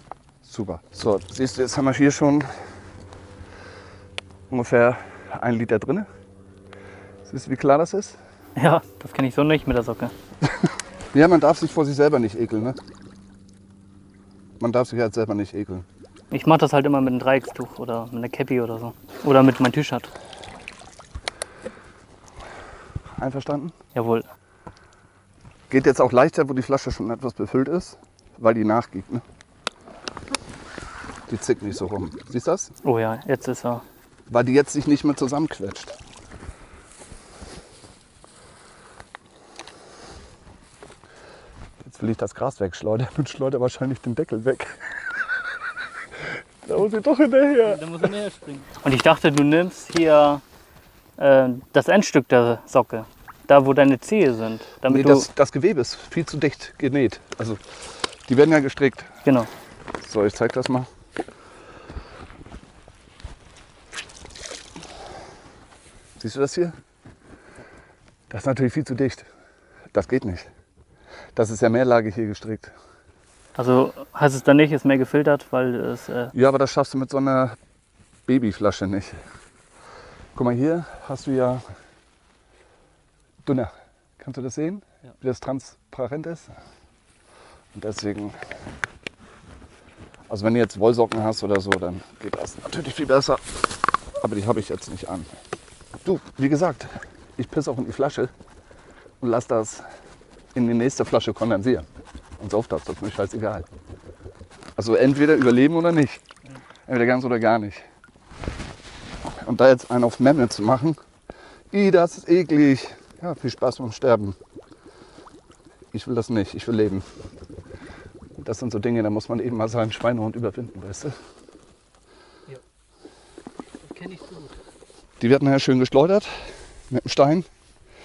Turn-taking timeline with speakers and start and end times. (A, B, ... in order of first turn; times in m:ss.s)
0:00.4-0:02.5 A
0:04.5-0:06.1 A
0:07.2-0:08.2 A
0:08.6-0:10.1 B
0:11.1-0:12.8 A
0:14.6-0:15.9 A
0:16.3-0:20.1 B
0:23.2-0:23.8 A
0:23.9-0:24.3 B
0:25.7-0:29.2 A
0:31.3-0:32.7 A
0:32.8-0:33.8 B
0:34.3-0:36.0 A
0:41.8-0:45.0 A
0:46.2-0:47.9 A
0:47.6-0:50.4 B
0:51.2-0:55.3 B
0:54.9-0:57.8 A
0:58.3-0:59.2 A
1:00.0-1:00.9 A
1:06.2-1:06.8 A
1:08.3-1:09.3 A
1:09.9-1:10.5 A
1:11.4-1:12.7 A
1:13.6-1:16.3 B
1:16.3-1:17.6 A
1:18.3-1:19.2 A
1:20.4-1:21.6 A
1:23.4-1:26.5 A
1:27.7-1:28.4 A
1:30.3-1:33.7 A
1:34.2-1:35.3 A
1:36.0-1:38.3 A
1:39.2-1:39.8 A
1:40.5-1:41.9 A
1:42.4-1:43.7 A
1:44.8-1:46.2 A
1:46.9-1:47.8 A
1:49.4-1:51.0 A
1:51.7-1:54.4 A
1:55.9-1:57.0 A
1:58.4-2:01.2 A
2:03.9-2:04.5 B
2:05.2-2:06.3 A
2:06.9-2:07.5 A